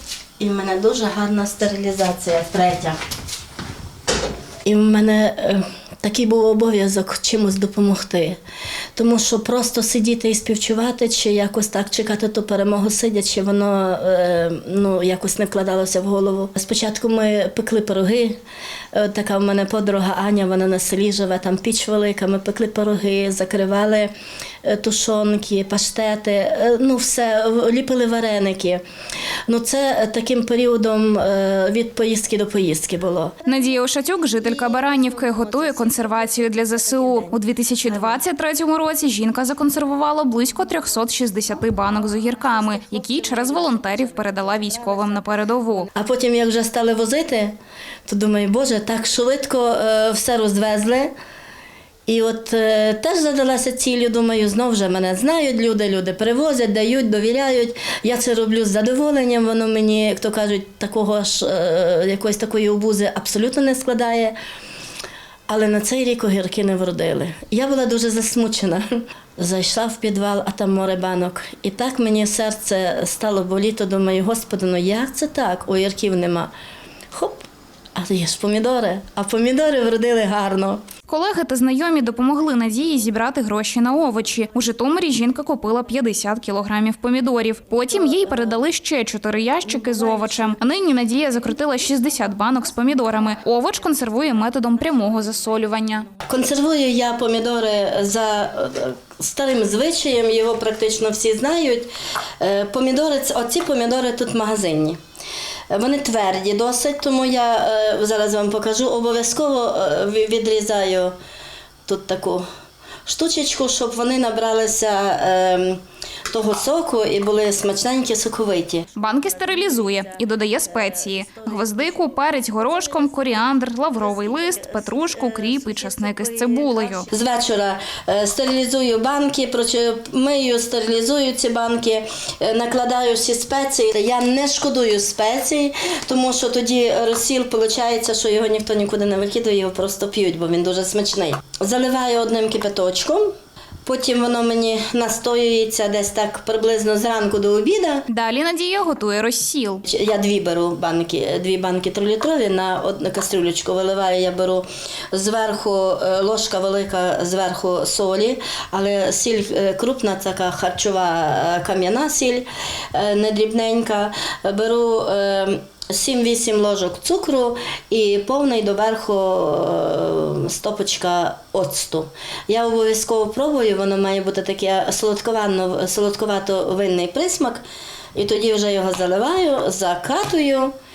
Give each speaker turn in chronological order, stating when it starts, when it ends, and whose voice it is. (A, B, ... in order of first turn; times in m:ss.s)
0:00.4-0:03.0 A
0:04.6-0:08.4 A
0:09.0-0:18.4 A
0:18.9-0:24.1 A
0:24.6-0:28.8 A
0:29.5-0:33.4 A
0:33.4-0:45.9 B
0:45.9-0:47.5 A
0:48.1-0:51.1 A
0:52.1-1:04.3 A
1:05.5-1:16.5 A
1:17.1-1:20.8 A
1:21.1-1:36.1 B
1:36.3-1:45.0 A
1:45.7-1:51.1 A
1:51.8-1:52.4 A
1:53.0-1:58.9 A
1:59.0-2:07.1 B
2:07.0-2:23.3 A
2:23.8-2:28.1 A
2:28.1-2:29.8 B
2:29.8-2:57.6 A
2:58.1-3:00.7 A